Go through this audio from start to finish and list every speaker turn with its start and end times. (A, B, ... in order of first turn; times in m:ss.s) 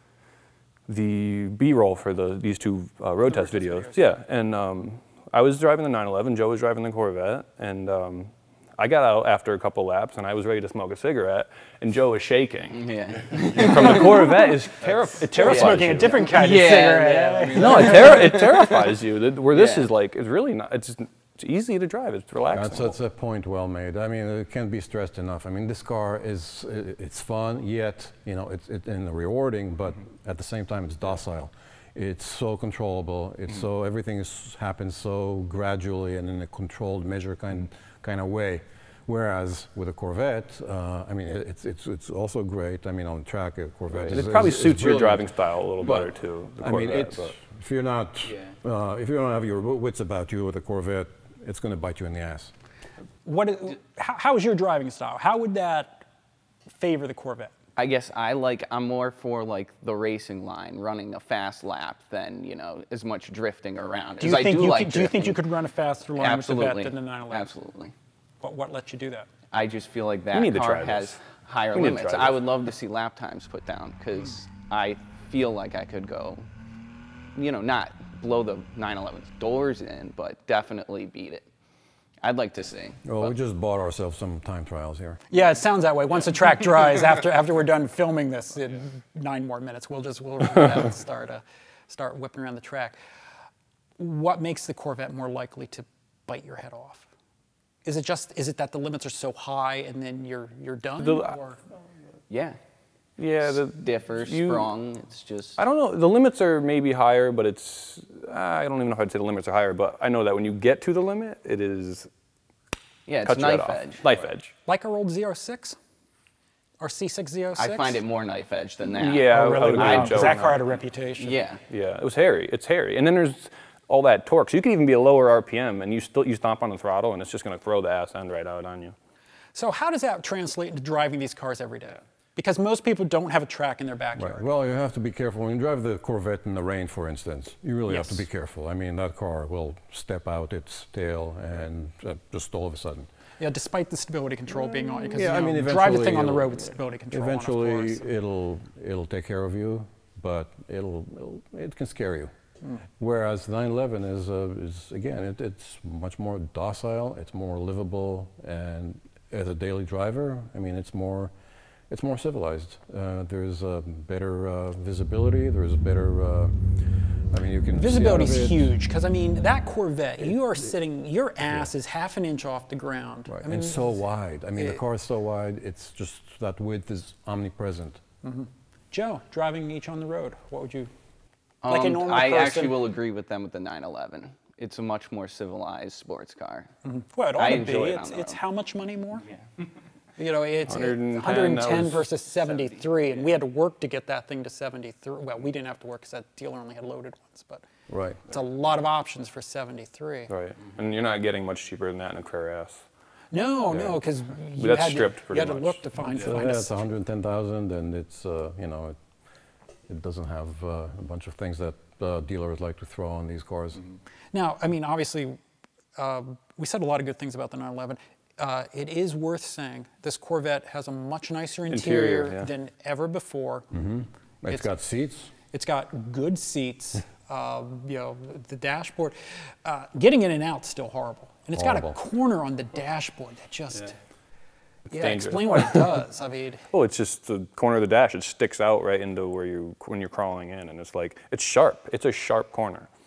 0:00.9-0:16.5 A
0:03.3-0:04.1 B
0:12.7-0:14.4 C
0:15.3-0:18.3 B
0:15.4-0:19.0 C
0:17.5-0:23.0 A
0:19.5-0:19.9 C
0:22.5-0:52.5 D
0:43.9-0:47.3 A
0:53.2-0:56.1 B
0:56.7-0:57.5 B
0:57.8-1:05.4 C
1:04.2-1:07.6 B
1:06.2-1:07.9 C
1:08.4-1:09.3 B
1:09.5-1:16.4 C
1:10.3-1:12.4 A
1:17.4-1:21.5 C
1:22.2-1:23.4 C
1:23.0-1:25.2 D
1:25.3-1:33.0 B
1:34.0-1:37.1 B
1:37.8-1:41.6 B
1:41.0-1:41.4 A
1:42.3-1:42.6 C
1:43.2-1:44.7 A
1:43.6-1:45.6 C
1:45.6-1:52.1 A
1:53.1-1:54.0 C
1:53.2-1:54.5 A
1:54.7-1:55.8 B
1:56.8-1:58.0 B
1:57.6-2:00.4 C
1:59.0-2:00.6 A
1:59.3-2:01.4 B
2:01.2-2:01.6 C
2:01.7-2:09.0 A
2:09.5-2:14.5 B
2:14.2-2:23.1 D
2:17.9-2:18.3 B
2:23.4-2:28.1 B
2:25.1-2:26.6 D
2:27.1-2:32.3 D
2:33.0-2:41.3 D
2:41.9-2:46.5 D
2:47.3-2:48.7 D
2:47.7-2:53.9 B
2:53.3-2:58.0 D
2:58.2-3:00.9 B
3:01.6-3:06.7 C
3:01.7-3:02.9 B
3:06.8-3:09.3 B
3:07.4-3:08.4 C
3:10.2-3:17.6 B
3:10.7-3:12.1 A
3:17.9-3:18.2 D
3:18.3-3:20.3 B
3:20.3-3:22.8 A
3:23.3-3:26.7 B
3:23.7-3:24.0 A
3:24.6-3:25.9 A
3:26.2-3:29.0 D
3:29.9-3:33.8 D
3:34.3-3:35.4 B
3:36.0-3:43.7 B
3:41.7-3:42.5 A
3:43.7-3:45.3 D
3:45.5-3:54.0 B
3:51.5-3:52.0 D
3:54.9-3:56.6 B
3:54.9-3:56.0 A
3:56.7-4:02.9 A